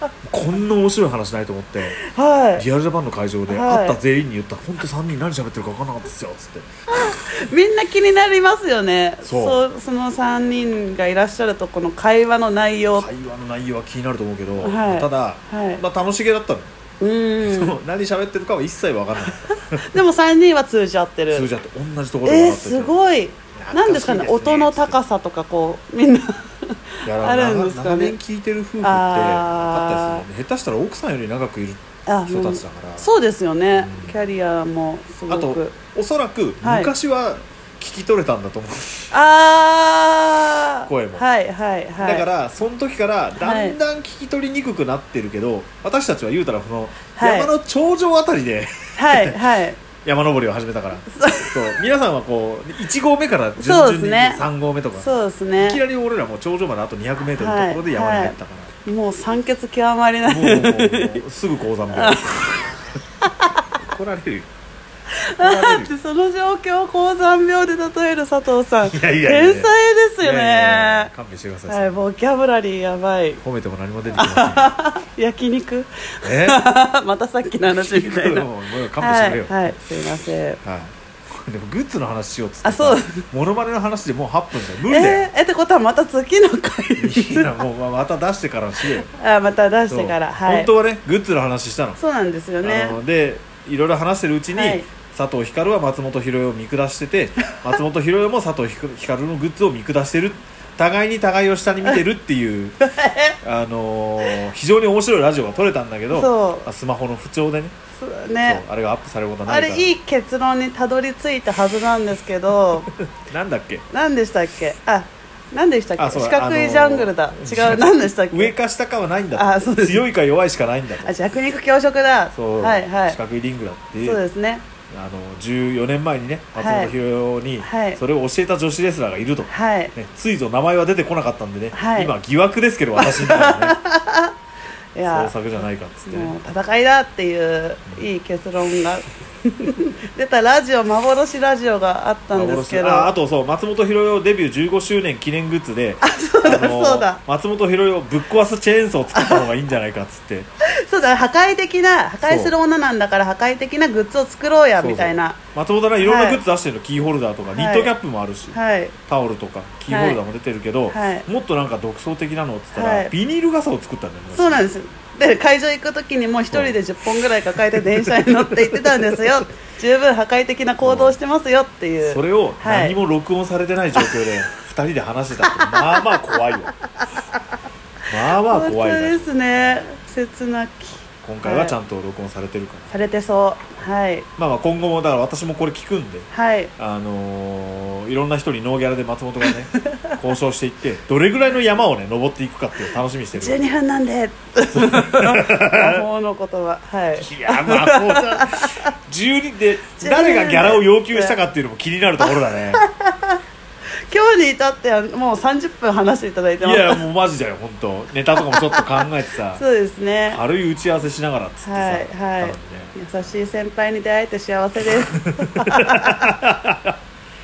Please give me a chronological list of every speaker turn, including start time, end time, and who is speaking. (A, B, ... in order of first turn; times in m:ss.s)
0:00.3-0:02.0 A
0:01.9-0:02.6 B
0:02.6-0:07.4 A
0:03.5-0:04.0 B
0:06.9-0:13.1 B
0:09.2-0:09.6 A
0:12.9-0:16.7 A
0:14.6-0:15.8 B
0:17.0-0:17.8 B
0:17.4-0:20.0 A
0:19.5-0:21.5 B
0:21.3-0:23.0 A
0:22.2-0:28.2 B
0:23.6-0:25.0 A
0:27.0-0:33.1 A
0:28.8-0:30.2 B
0:32.1-0:35.8 B
0:33.7-0:34.2 A
0:35.3-0:39.1 A
0:36.6-0:36.9 B
0:39.1-0:42.3 B
0:40.9-0:41.2 A
0:42.0-0:49.4 A
0:43.4-0:43.8 B
0:47.2-0:47.5 B
0:49.0-0:49.8 B
0:50.0-0:58.7 A
0:51.1-0:51.6 B
0:53.6-0:54.4 B
0:55.0-0:55.8 B
0:57.4-1:01.2 B
1:00.3-1:02.8 A
1:01.9-1:02.5 B
1:03.2-1:03.6 B
1:03.8-1:04.5 A
1:05.2-1:11.1 B
1:05.3-1:05.9 A
1:08.8-1:12.0 A
1:11.7-1:13.4 B
1:13.4-1:14.7 A
1:14.1-1:18.5 B
1:16.2-1:16.6 A
1:17.7-1:19.8 A
1:19.0-1:20.6 B
1:20.6-1:25.3 A
1:22.6-1:23.2 B
1:24.9-1:27.5 B
1:27.0-1:29.1 A
1:29.1-1:30.7 B
1:29.9-1:32.0 A
1:32.0-1:33.0 B
1:32.6-1:42.8 A
1:34.5-1:34.9 B
1:42.9-1:43.4 B
1:43.4-1:47.8 A
1:46.1-1:46.7 B
1:48.0-1:48.6 B
1:48.4-1:49.9 A
1:49.5-1:52.9 B
1:52.9-1:53.9 A
1:53.9-1:58.5 B
1:56.0-2:01.2 A
1:59.4-2:00.1 B
2:01.0-2:03.2 B
2:02.3-2:04.2 A
2:04.0-2:04.6 B
2:04.9-2:13.8 A
2:06.6-2:06.9 B
2:07.6-2:08.0 B
2:09.5-2:09.9 B
2:11.7-2:12.1 B
2:13.0-2:14.3 B
2:15.0-2:15.3 B
2:15.0-2:16.4 A
2:16.0-2:23.1 B
2:22.3-2:30.5 A
2:26.0-2:27.2 B
2:29.1-2:29.4 B
2:30.7-2:35.4 B
2:32.2-2:32.6 A
2:34.8-2:38.6 A
2:36.0-2:36.4 B
2:37.6-2:37.9 B
2:38.5-2:39.0 B
2:39.1-2:44.7 A
2:39.9-2:40.2 B
2:40.9-2:41.3 B
2:42.8-2:43.1 B
2:44.3-2:53.0 B
2:46.5-2:46.8 A
2:47.8-2:49.4 A
2:50.8-2:51.2 A
2:52.0-2:56.7 A
2:55.5-2:56.3 B
2:58.1-2:59.9 A
2:58.5-3:01.8 B
3:01.2-3:02.9 A
3:02.9-3:04.3 B
3:04.4-3:13.6 A
3:06.3-3:06.7 B
3:13.3-3:18.9 B
3:14.7-3:16.0 A
3:17.2-3:22.8 A
3:20.0-3:21.4 B
3:22.2-3:23.4 B
3:24.1-3:27.0 B
3:26.6-3:29.6 A
3:28.4-3:29.0 B
3:29.6-3:30.4 B
3:30.3-3:33.0 A
3:31.6-3:36.4 B
3:35.1-3:37.0 A